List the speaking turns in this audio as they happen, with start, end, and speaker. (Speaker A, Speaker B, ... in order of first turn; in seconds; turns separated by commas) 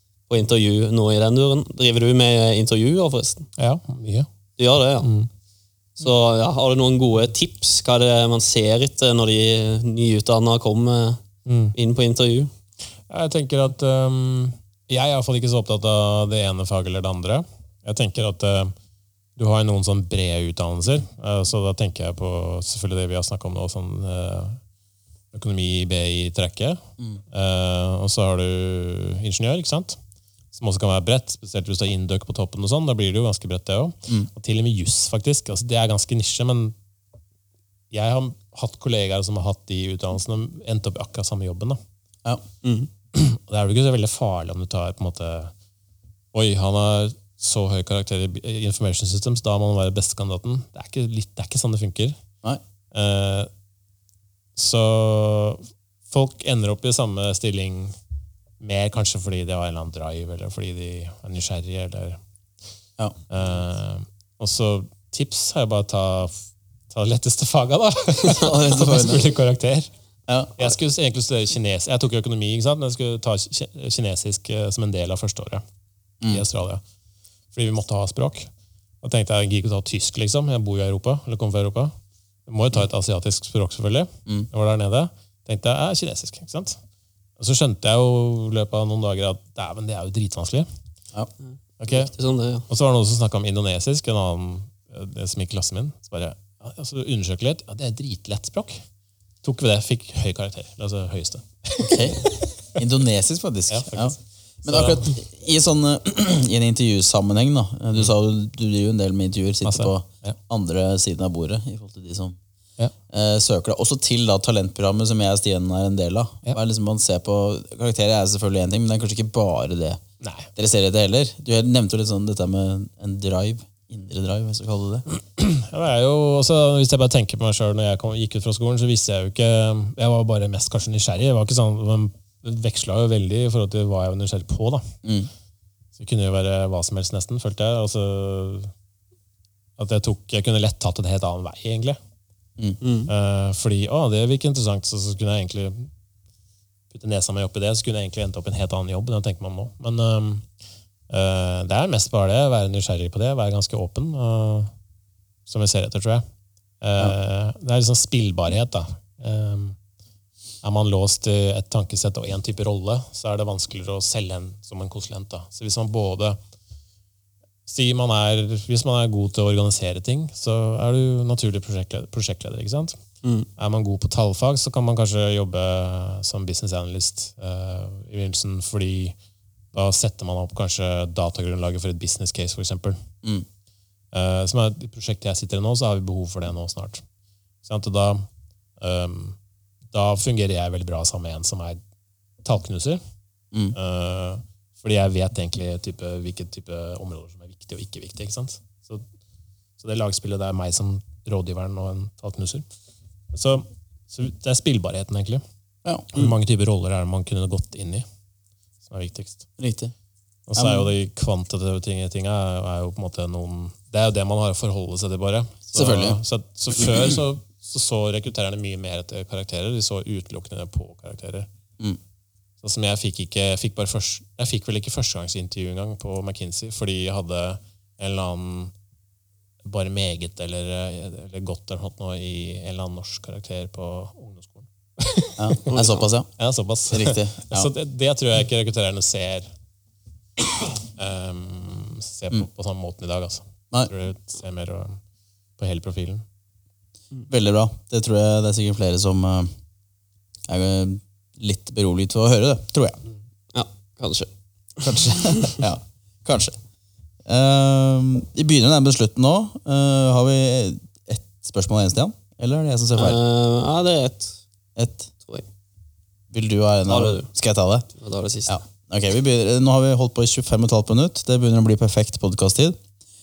Speaker A: 0.3-3.5, Speaker B: 3.6-4.3, Speaker A: 4.6-5.1, Speaker B: 5.0-5.3, Speaker A: 6.0-11.2, Speaker B: 11.5-11.7, Speaker A: 11.7-12.5, Speaker B: 13.1-18.7, Speaker B: 19.4-24.6, Speaker B: 25.3-30.0, Speaker B: 30.5-36.8, Speaker B: 37.9-41.8, Speaker A: 42.6-42.9, Speaker B: 43.1-45.5, Speaker B: 46.3-52.2, Speaker B: 52.9-53.5, Speaker B: 54.5-58.0, Speaker B: 58.6-62.2, Speaker B: 63.3-69.9, Speaker C: 68.3-69.3, Speaker C: 70.3-70.5, Speaker B: 70.6-75.6, Speaker B: 76.3-76.8, Speaker B: 77.5-78.5, Speaker B: 79.0-81.9, Speaker B: 82.5-86.8, Speaker B: 87.4-90.7, Speaker B: 91.8-92.1, Speaker A: 91.9-92.7, Speaker B: 92.7-98.8, Speaker B: 99.4-102.8, Speaker C: 101.8-112.4, Speaker B: 103.7-105.2, Speaker B: 109.7-110.4, Speaker C: 113.1-120.0, Speaker B: 120.2-120.5, Speaker C: 120.5-125.0, Speaker B: 125.1-134.9, Speaker C: 135.0-135.3, Speaker B: 136.0-138.7, Speaker B: 139.8-142.0, Speaker A: 142.8-143.1, Speaker B: 143.1-145.9, Speaker B: 146.9-150.5, Speaker B: 151.1-154.7, Speaker B: 155.5-156.2, Speaker B: 156.8-159.8, Speaker B: 160.6-166.4, Speaker B: 167.7-173.0, Speaker B: 173.6-179.2, Speaker B: 179.7-183.0, Speaker B: 184.1-187.0, Speaker B: 187.6-188.3, Speaker B: 188.8-189.4, Speaker B: 189.9-191.8, Speaker B: 192.4-193.0, Speaker B: 193.8-199.0, Speaker B: 199.8-202.7, Speaker B: 203.3-205.4, Speaker B: 206.1-208.1, Speaker B: 208.8-209.5, Speaker C: 209.6-209.9, Speaker B: 210.5-221.5, Speaker C: 210.6-210.9, Speaker C: 215.7-216.2, Speaker B: 222.6-228.7, Speaker B: 229.6-235.8, Speaker C: 235.4-236.3, Speaker A: 235.7-236.1, Speaker B: 236.4-239.5, Speaker C: 236.9-237.7, Speaker B: 241.0-245.0, Speaker B: 245.6-246.2, Speaker C: 247.3-249.5, Speaker C: 250.5-253.0, Speaker A: 253.5-254.3, Speaker C: 254.8-256.6, Speaker C: 257.3-263.2, Speaker A: 263.0-264.4, Speaker C: 264.8-265.1, Speaker C: 266.3-267.9, Speaker A: 266.9-267.3, Speaker A: 267.9-268.6, Speaker C: 268.5-272.8